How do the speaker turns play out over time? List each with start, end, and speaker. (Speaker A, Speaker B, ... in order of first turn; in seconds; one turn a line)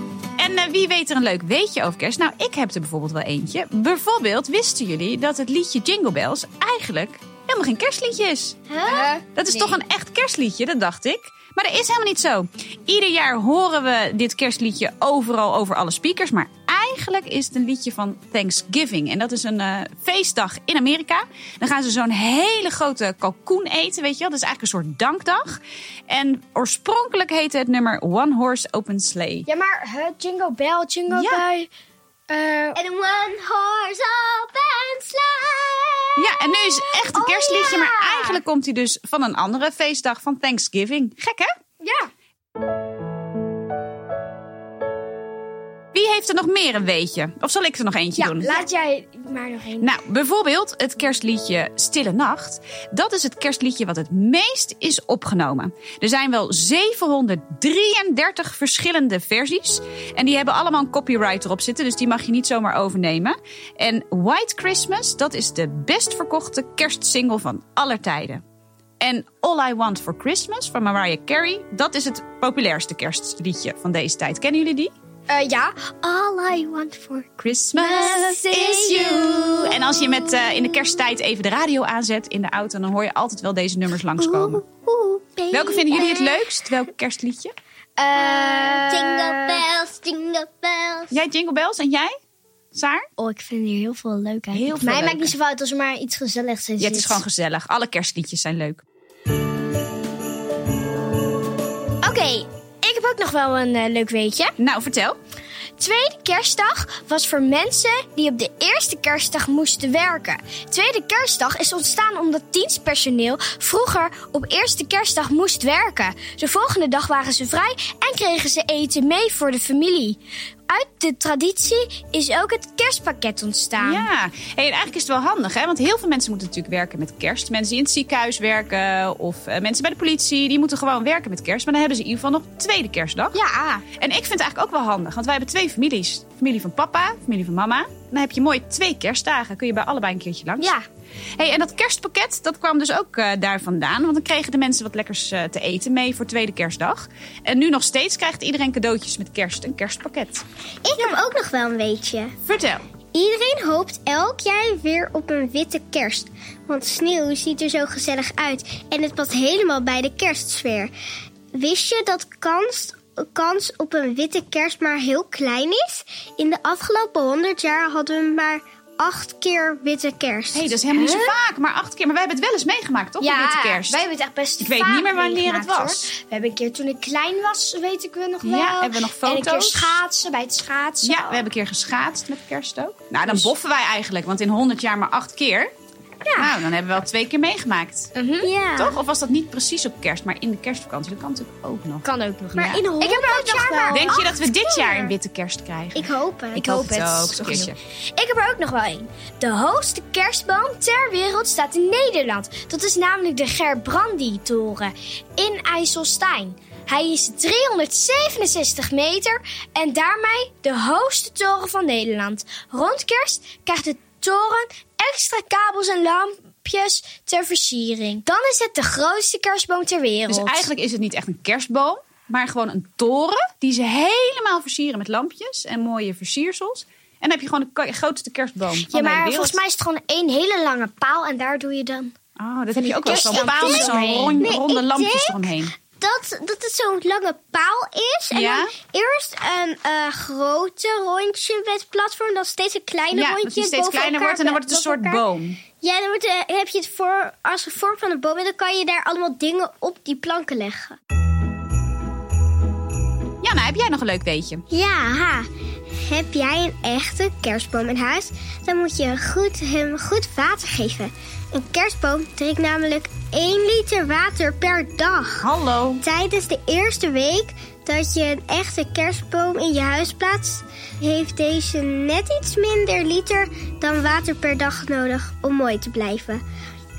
Speaker A: 0.4-8.7
Speaker B: 8.7-9.2
Speaker C: 8.9-9.8
Speaker A: 9.3-29.5
Speaker C: 29.4-31.7
Speaker A: 31.1-31.4
Speaker C: 32.3-32.8
Speaker B: 32.7-37.1
Speaker A: 36.2-41.5
Speaker C: 37.1-38.4
Speaker C: 41.8-42.1
Speaker A: 45.9-48.5
Speaker C: 48.2-49.9
Speaker A: 49.8-68.4
Speaker A: 69.0-74.9
Speaker C: 75.3-79.7
Speaker A: 77.4-84.6
Speaker B: 84.2-86.4
Speaker A: 85.5-87.5
Speaker C: 88.0-89.6
Speaker B: 88.1-91.2
Speaker A: 91.1-92.1
Speaker A: 92.7-93.0
Speaker C: 93.2-97.2
Speaker A: 94.5-95.3
Speaker A: 96.8-98.8
Speaker C: 102.0-104.5
Speaker A: 104.6-105.2
Speaker C: 105.8-124.1
Speaker A: 123.8-133.4
Speaker C: 133.3-133.8
Speaker A: 134.0-140.7
Speaker C: 140.6-140.8
Speaker A: 141.4-150.4
Speaker B: 150.8-152.3
Speaker A: 152.4-152.8
Speaker B: 153.1-160.9
Speaker B: 161.5-170.8
Speaker A: 170.5-174.0
Speaker C: 170.9-171.3
Speaker C: 173.2-181.4
Speaker A: 174.6-176.1
Speaker A: 178.4-180.0
Speaker A: 181.0-185.7
Speaker C: 186.2-186.6
Speaker A: 186.4-188.1
Speaker C: 188.1-188.5
Speaker B: 188.4-189.0
Speaker A: 188.8-192.9
Speaker C: 192.0-194.2
Speaker B: 192.6-195.1
Speaker A: 193.9-196.1
Speaker B: 195.9-196.7
Speaker C: 196.5-220.7
Speaker A: 196.6-197.7
Speaker A: 220.3-229.6
Speaker C: 228.9-232.1
Speaker A: 232.4-235.7
Speaker C: 232.8-234.4
Speaker B: 233.1-245.2
Speaker A: 238.3-238.7
Speaker A: 243.1-245.6
Speaker B: 245.8-251.0
Speaker A: 253.4-254.6
Speaker B: 254.7-255.5
Speaker B: 256.1-265.5
Speaker A: 265.4-266.0
Speaker B: 266.0-276.4